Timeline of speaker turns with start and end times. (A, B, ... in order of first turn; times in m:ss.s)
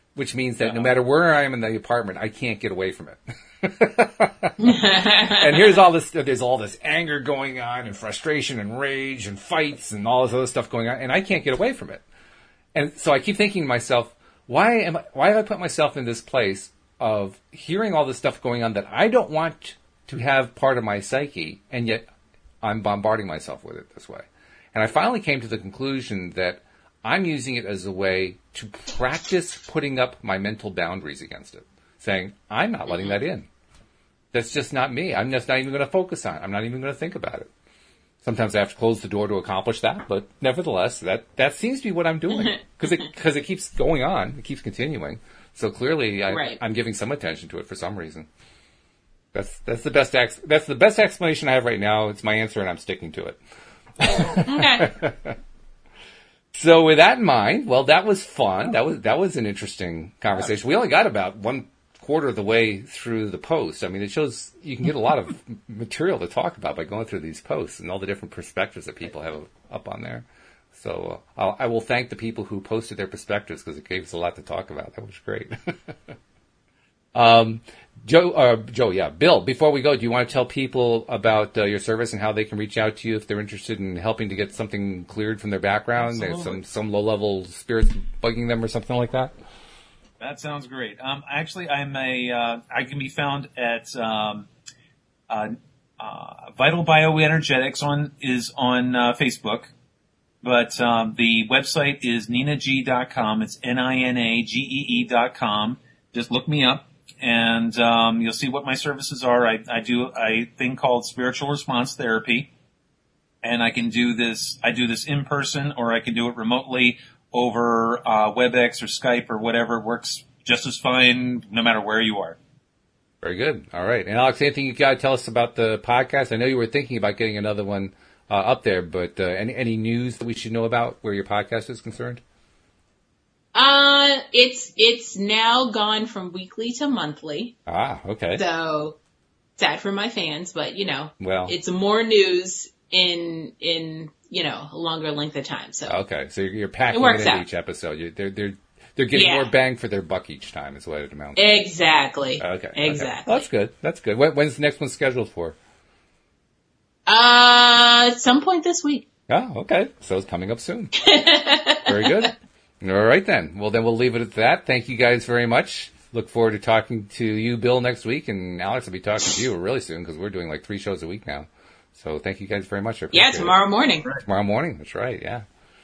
0:00.2-0:12.0 A
0:00.6-0:00.9 B
0:04.6-0:05.7 C
0:12.7-0:22.0 A
0:22.6-0:33.5 A
0:34.3-0:37.5 A
0:38.2-0:48.3 A
0:42.5-0:42.9 C
0:46.3-0:46.6 C
0:49.3-0:53.4 A
0:54.0-0:55.4 A
0:54.2-0:54.9 C
0:56.5-1:16.0 A
1:17.1-1:29.3 A
1:26.0-1:26.6 B
1:30.2-1:34.5 B
1:35.3-1:39.7 B
1:40.4-1:52.5 B
1:53.4-2:02.4 B
2:03.2-2:12.2 A
2:13.6-2:17.6 C
2:17.7-2:18.4 A
2:18.4-2:19.0 C
2:19.6-2:26.0 C
2:21.2-2:21.6 A
2:25.9-2:31.4 A
2:26.9-2:27.4 C
2:29.1-2:29.5 C
2:31.4-2:33.4 C
2:32.4-2:35.6 A
2:37.1-2:39.0 C
2:39.3-2:40.9 A
2:41.0-2:42.3 C
2:41.9-2:53.6 A
2:53.1-2:54.1 C
2:54.2-2:55.4 A